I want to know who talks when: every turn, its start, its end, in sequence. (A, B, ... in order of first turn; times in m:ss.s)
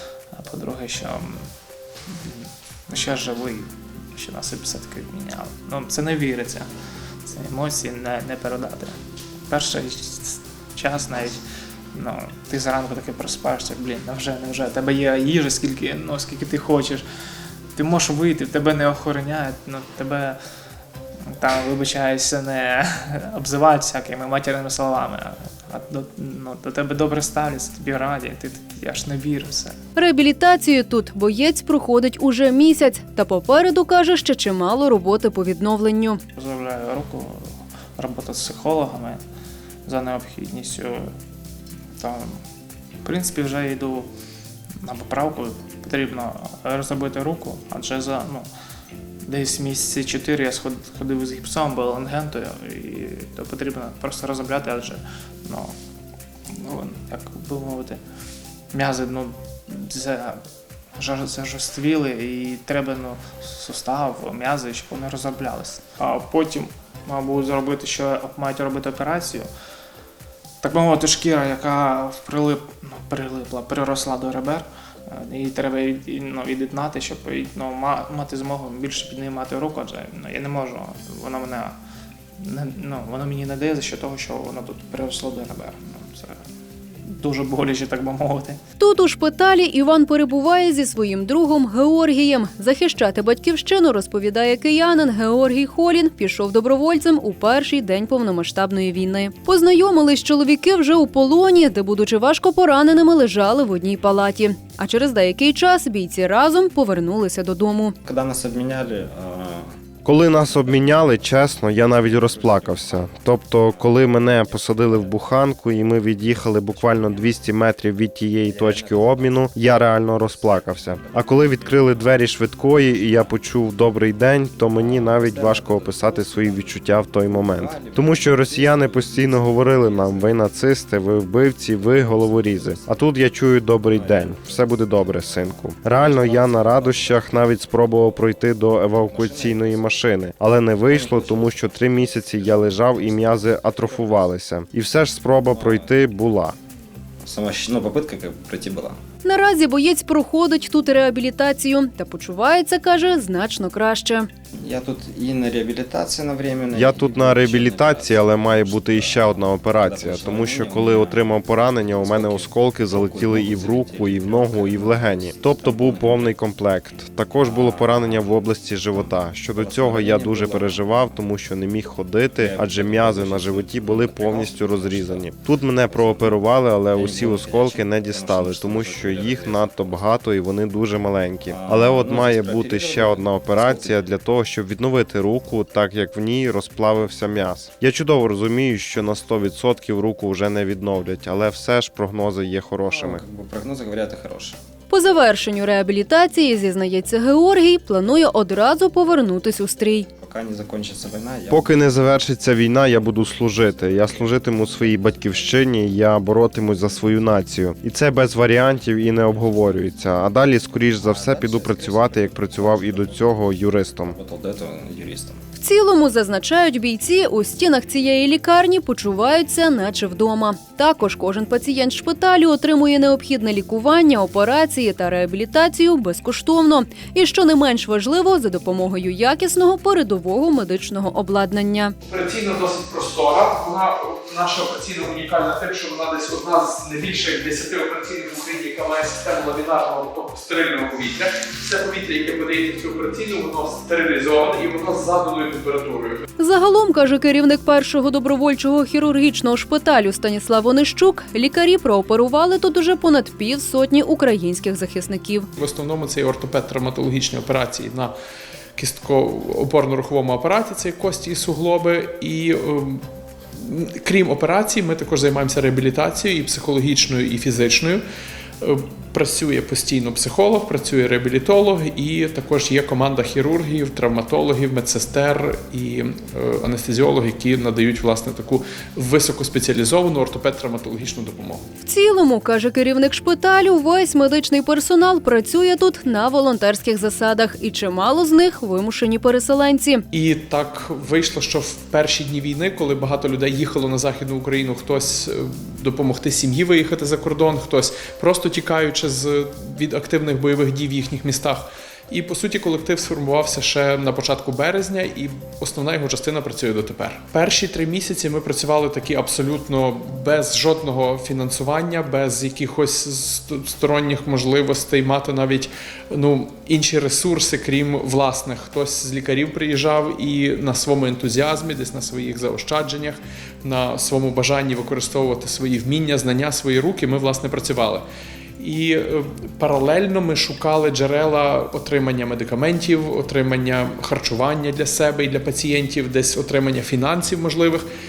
0:00.3-0:01.5 A
0:02.1-0:06.7 A
0:07.3-0:09.0 A
0:09.5-0:17.0 A
0:17.8-0:20.4 A
0:21.2-0:29.8 A
0:30.0-0:36.2 B
0:36.3-0:39.2 A
0:39.8-0:41.1 A
0:42.0-0:42.4 A
0:43.0-0:44.1 A
0:44.8-0:48.5 A
0:49.2-0:55.7 A
0:56.5-0:58.0 A
0:58.7-1:00.4 A
1:01.0-1:09.5 A
1:10.6-1:21.7 A
1:22.4-1:26.4 A
1:27.1-1:28.6 A
1:28.8-1:47.9 B
1:48.0-1:49.7 C
1:50.0-2:26.6 D
1:50.3-1:57.4 C
1:58.4-2:03.4 C
2:04.7-2:10.4 C
2:11.7-2:13.3 C
2:13.8-2:18.3 C
2:18.9-2:20.0 C
2:20.8-2:24.2 C
2:25.5-2:25.9 C
2:27.2-2:29.0 C
2:29.2-2:34.3 B
2:34.5-2:46.3 C
2:36.7-3:13.2 D
2:47.4-2:51.3 C
2:52.4-2:56.4 C
2:56.9-3:00.0 C
3:01.5-3:04.1 C
3:12.9-3:14.6 C
3:14.9-3:20.1 B
3:20.2-3:22.3 C
3:21.5-3:34.2 D
3:22.9-3:25.5 C
3:29.2-3:30.2 C
3:31.0-3:33.5 C
3:34.0-3:35.4 C
3:35.6-3:51.9 B
3:52.0-4:06.2 E
4:06.4-4:15.5 B
4:15.6-4:18.1 E
4:18.8-4:28.0 E
4:28.6-4:41.6 E
4:41.8-4:50.0 B
4:50.1-5:28.0 E
5:28.6-5:37.8 E